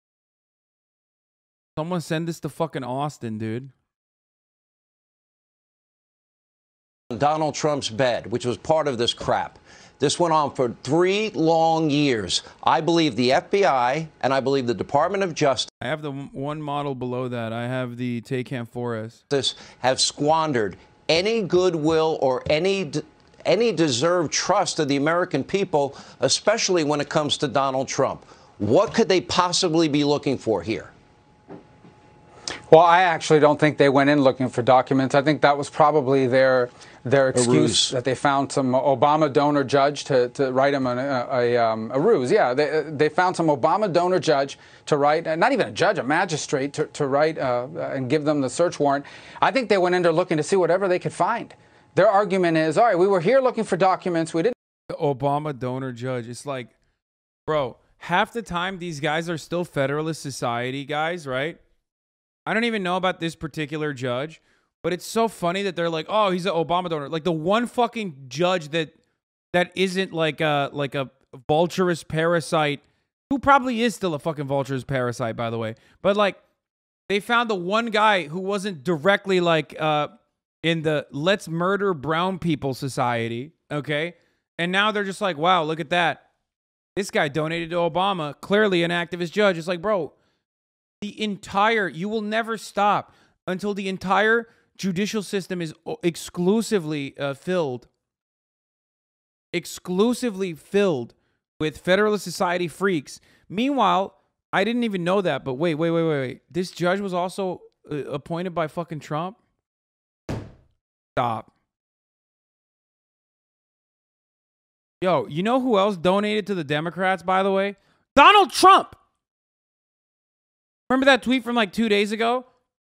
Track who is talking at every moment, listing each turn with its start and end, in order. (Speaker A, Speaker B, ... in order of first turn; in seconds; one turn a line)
Speaker A: 1.8-3.7
Speaker B: 7.1-15.7
Speaker A: 15.8-19.2
Speaker B: 19.3-30.9
Speaker C: 32.7-54.5
Speaker B: 37.3-38.0
Speaker A: 54.9-56.7
Speaker A: 57.5-61.6
Speaker A: 62.5-68.9
Speaker A: 69.5-76.4
Speaker A: 77.1-80.1
Speaker A: 80.6-86.2
Speaker A: 87.0-90.1
Speaker A: 91.0-97.9
Speaker A: 99.5-109.4
Speaker A: 111.2-111.5
Speaker A: 115.0-119.0
Speaker A: 120.9-122.5